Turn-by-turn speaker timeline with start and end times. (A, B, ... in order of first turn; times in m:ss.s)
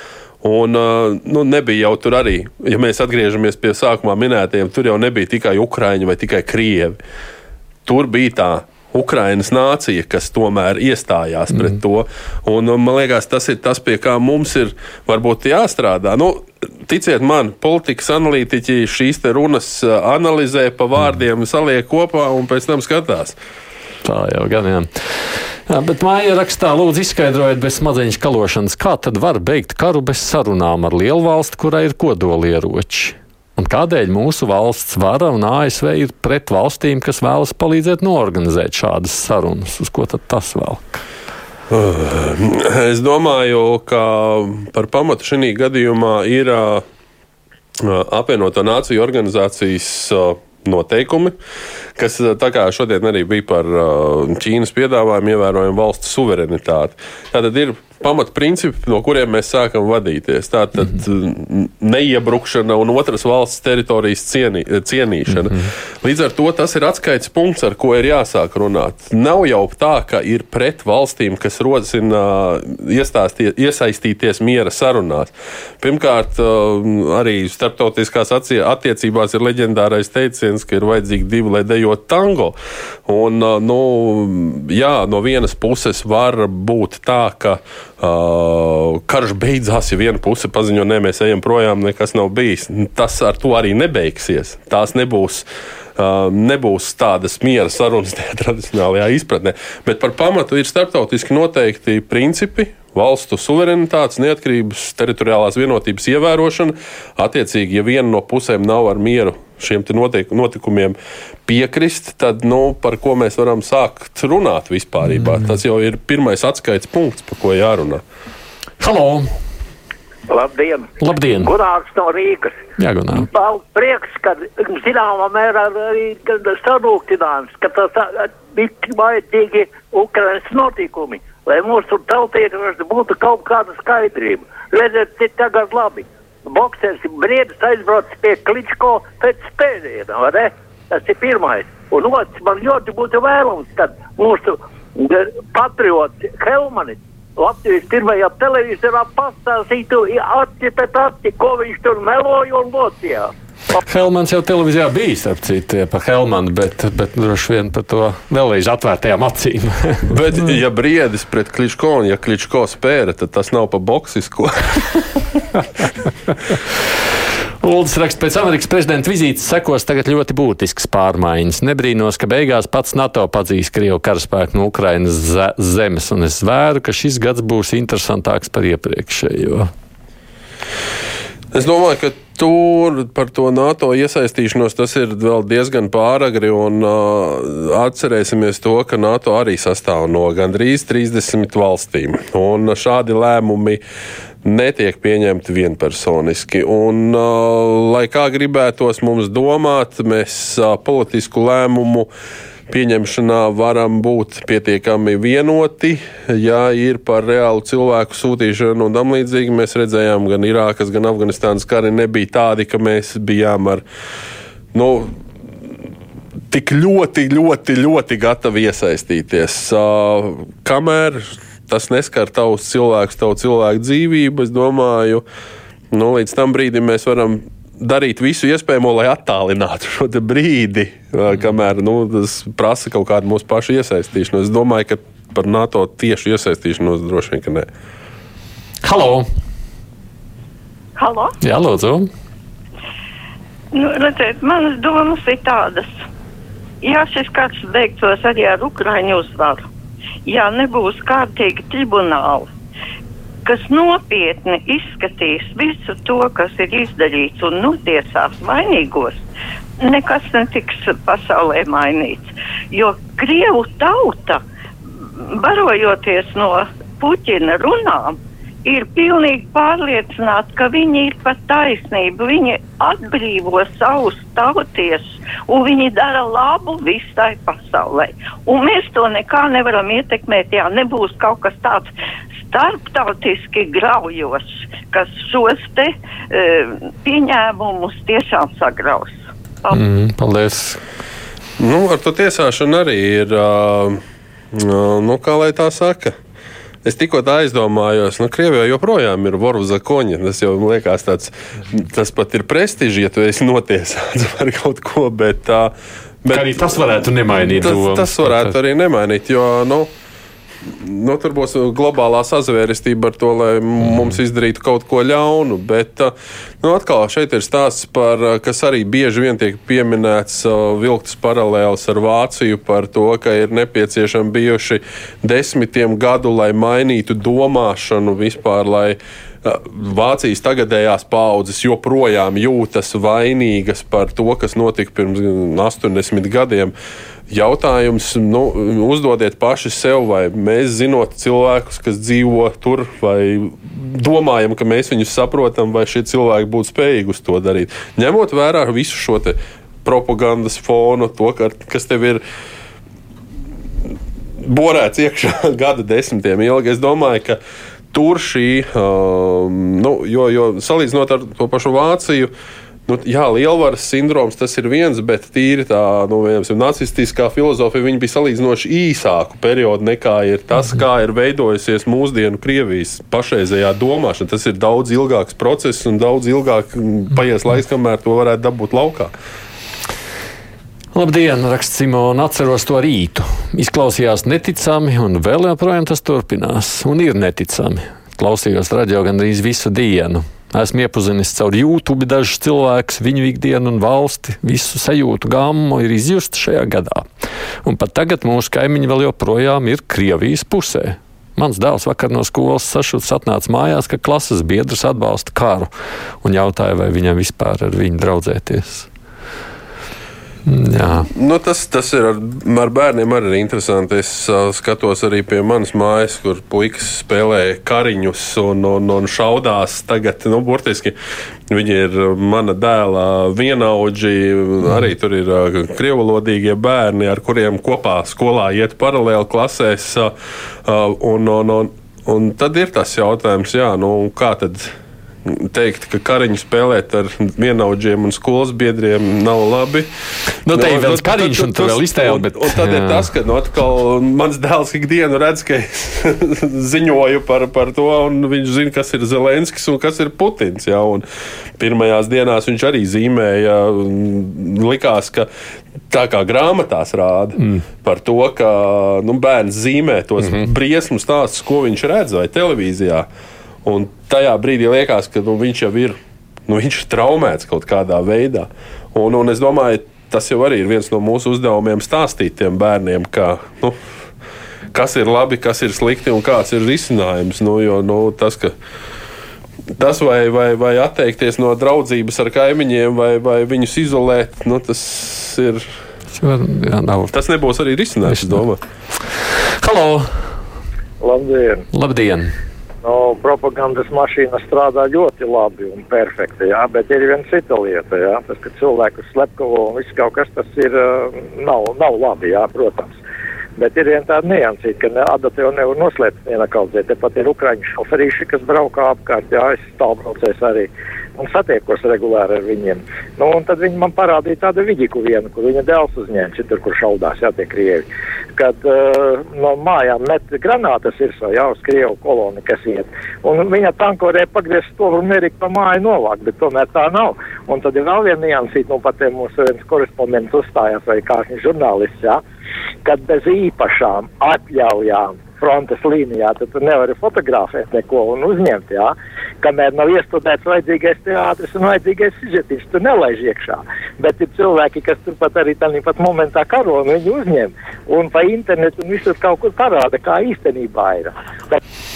0:00.4-0:07.0 A
0:07.9-0:23.4 A
0:24.0-0:41.0 B
0:41.7-0:46.8 A
0:47.8-0:51.4 A
0:52.0-1:58.0 A
1:58.8-1:59.3 B
2:00.3-2:02.6 C
2:01.0-2:01.6 B
2:02.8-2:03.3 B
2:03.2-2:33.3 C
2:33.8-2:40.1 B
2:40.1-2:45.2 A
2:47.6-2:59.7 B
3:01.5-3:13.8 A
3:14.4-3:22.1 A
3:22.7-3:33.8 A
3:34.7-3:35.7 A
3:36.5-3:45.2 A
3:45.9-3:57.7 A
3:58.8-3:59.3 B
4:01.0-4:01.4 D
4:01.4-4:02.1 B
4:03.7-4:06.1 D
4:06.8-4:09.7 D
4:10.3-4:12.5 D
4:13.4-4:19.2 D
4:19.8-4:24.4 D
4:25.3-4:41.9 D
4:42.5-4:49.8 D
4:49.7-4:50.8 B
4:51.6-4:56.2 A
4:56.8-5:06.7 A
5:06.3-5:08.5 B
5:07.4-5:09.9 A
5:10.6-5:36.7 A
5:37.3-5:52.2 A
5:54.4-5:57.4 A
5:57.9-6:02.3 A
6:02.9-6:19.1 A
6:20.9-6:37.1 B
6:37.6-6:45.7 B
6:46.2-6:48.9 B
6:50.5-6:51.1 B
6:51.1-7:01.0 A
7:01.5-7:10.1 A
7:10.6-7:14.7 A
7:15.2-7:19.9 A
7:20.5-7:23.1 B
7:20.5-7:31.0 A
7:31.6-7:35.3 A
7:35.9-7:43.1 A
7:40.2-7:40.5 B
7:43.6-7:53.8 A
7:54.7-7:58.6 A
7:59.8-8:05.7 A
8:06.1-8:07.2 B
8:07.1-8:08.6 A
8:08.1-8:08.4 B
8:09.6-8:10.1 B
8:11.0-8:11.7 E
8:11.7-8:12.3 B
8:12.8-8:23.0 E
8:23.6-8:52.2 E
8:52.8-9:11.6 E